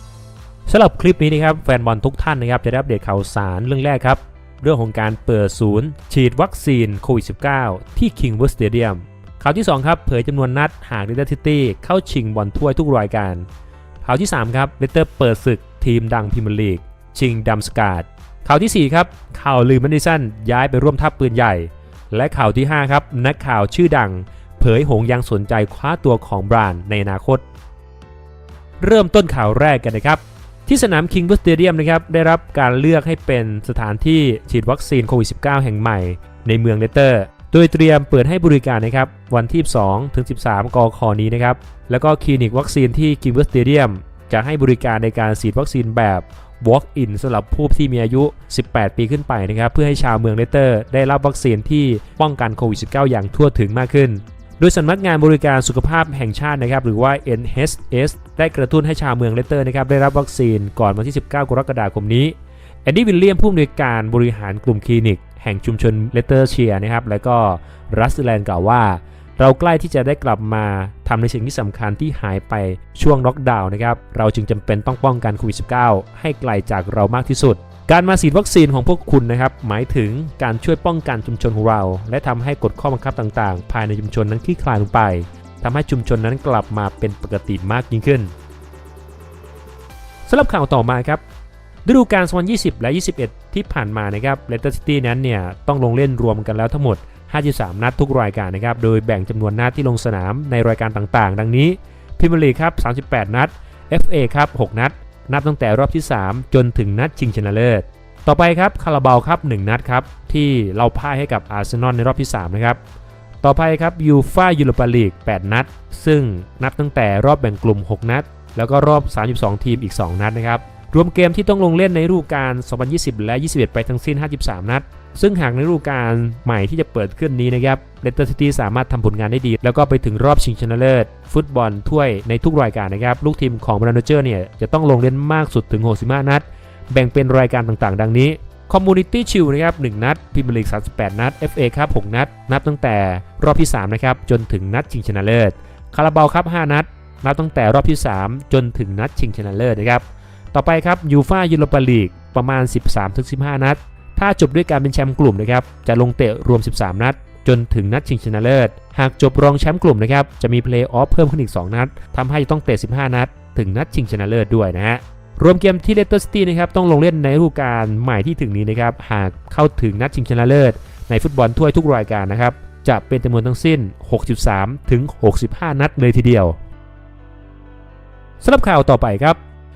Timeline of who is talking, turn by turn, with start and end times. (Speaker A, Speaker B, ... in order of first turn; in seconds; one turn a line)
Speaker A: 0.7-13.5
Speaker A: 14.1-27.4
Speaker A: 28.8-88.3
Speaker A: 90.3-91.2
Speaker A: 91.8-112.8
Speaker A: 113.4-176.6
Speaker A: 178.4-179.4